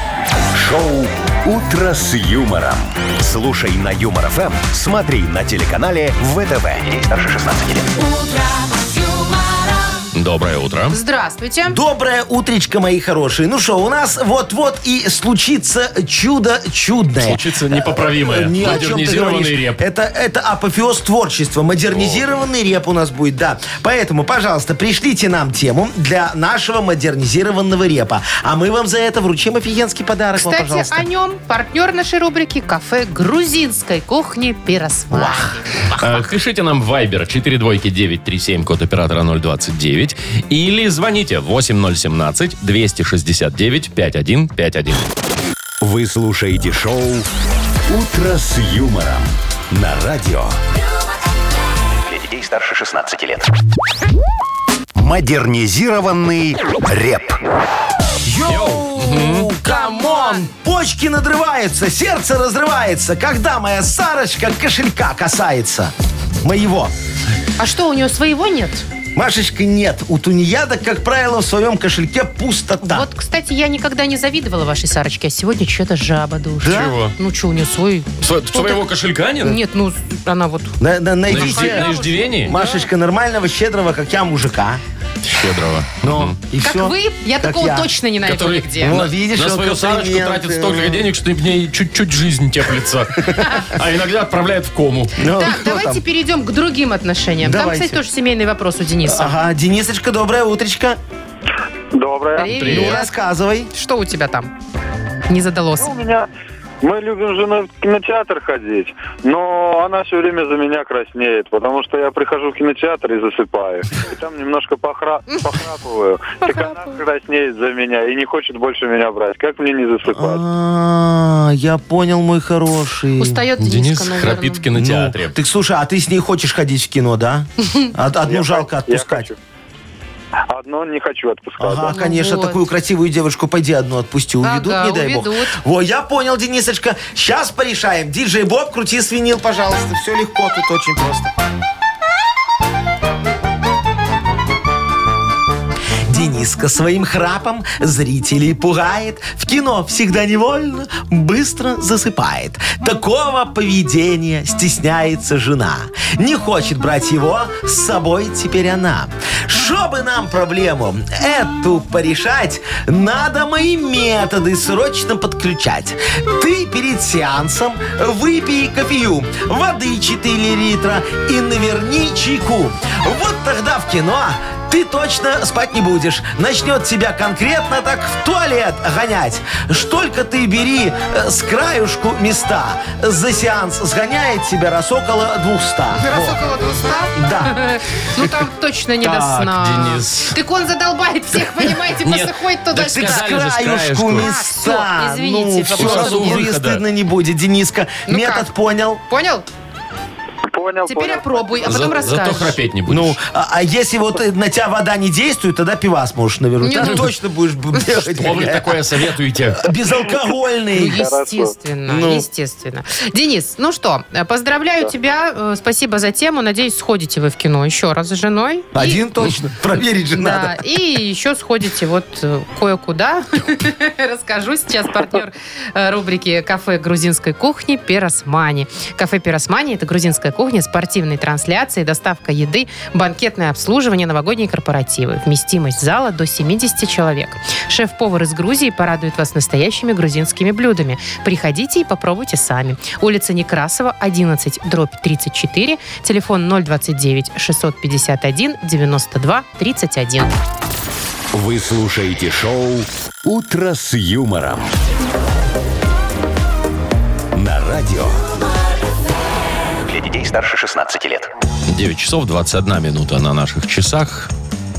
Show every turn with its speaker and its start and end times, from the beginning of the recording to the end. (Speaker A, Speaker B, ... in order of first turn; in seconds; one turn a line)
Speaker A: 0.5-7.8
Speaker B: 7.9-10.0
Speaker C: 10.1-11.0
Speaker D: 10.9-11.8
Speaker E: 11.7-31.1
Speaker C: 17.2-19.8
Speaker C: 21.9-22.2
Speaker D: 30.4-36.3
Speaker C: 36.0-45.1
Speaker A: 45.8-47.3
Speaker A: 47.9-50.6
Speaker A: 55.0-57.4
Speaker E: 58.2-66.9
Speaker C: 58.5-59.5
Speaker D: 59.6-60.5
Speaker D: 67.6-68.8
Speaker E: 69.1-73.1
Speaker D: 72.8-78.8
Speaker E: 76.6-77.0
Speaker C: 76.6-77.1
Speaker C: 78.2-79.6
Speaker D: 79.4-82.9
Speaker E: 80.8-81.9
Speaker C: 81.3-82.5
Speaker E: 82.4-84.8
Speaker C: 85.2-86.3
Speaker E: 86.0-87.9
Speaker D: 86.6-89.0
Speaker C: 88.2-95.1
Speaker E: 88.8-91.1
Speaker D: 93.4-93.6
Speaker E: 95.2-96.0
Speaker D: 95.3-99.4
Speaker E: 97.4-98.0
Speaker E: 99.0-101.0
Speaker F: 101.9-102.5
Speaker D: 102.3-103.1
Speaker C: 102.5-102.9
Speaker E: 102.7-103.7
Speaker D: 103.7-104.5
Speaker D: 105.3-105.9
Speaker F: 105.8-106.3
Speaker F: 106.8-120.4
Speaker D: 116.4-117.0
Speaker E: 120.1-123.4
Speaker D: 123.2-124.6
Speaker C: 123.6-125.3
Speaker E: 124.7-129.3
Speaker F: 128.2-129.4
Speaker F: 130.5-131.9
Speaker E: 131.6-141.3
Speaker D: 131.8-132.6
Speaker D: 134.4-135.5
Speaker E: 146.1-186.4
Speaker D: 185.9-193.4
Speaker E: 187.1-187.6
Speaker C: 189.0-190.3
Speaker C: 191.9-194.3
Speaker E: 192.8-199.0
Speaker D: 194.1-196.4
Speaker C: 195.7-196.8
Speaker D: 198.1-198.5
Speaker D: 199.1-199.4
Speaker F: 200.5-202.1
Speaker D: 200.9-202.6
Speaker C: 201.6-203.2
Speaker E: 202.9-208.8
Speaker D: 206.6-207.1
Speaker C: 208.1-209.7
Speaker E: 209.5-211.1
Speaker D: 210.7-219.0
Speaker F: 210.9-211.5
Speaker E: 211.8-212.2
Speaker E: 218.7-220.6
Speaker D: 220.1-250.3
Speaker A: 251.3-254.7
Speaker A: 257.3-258.2
Speaker B: 259.9-261.2
Speaker C: 261.7-264.3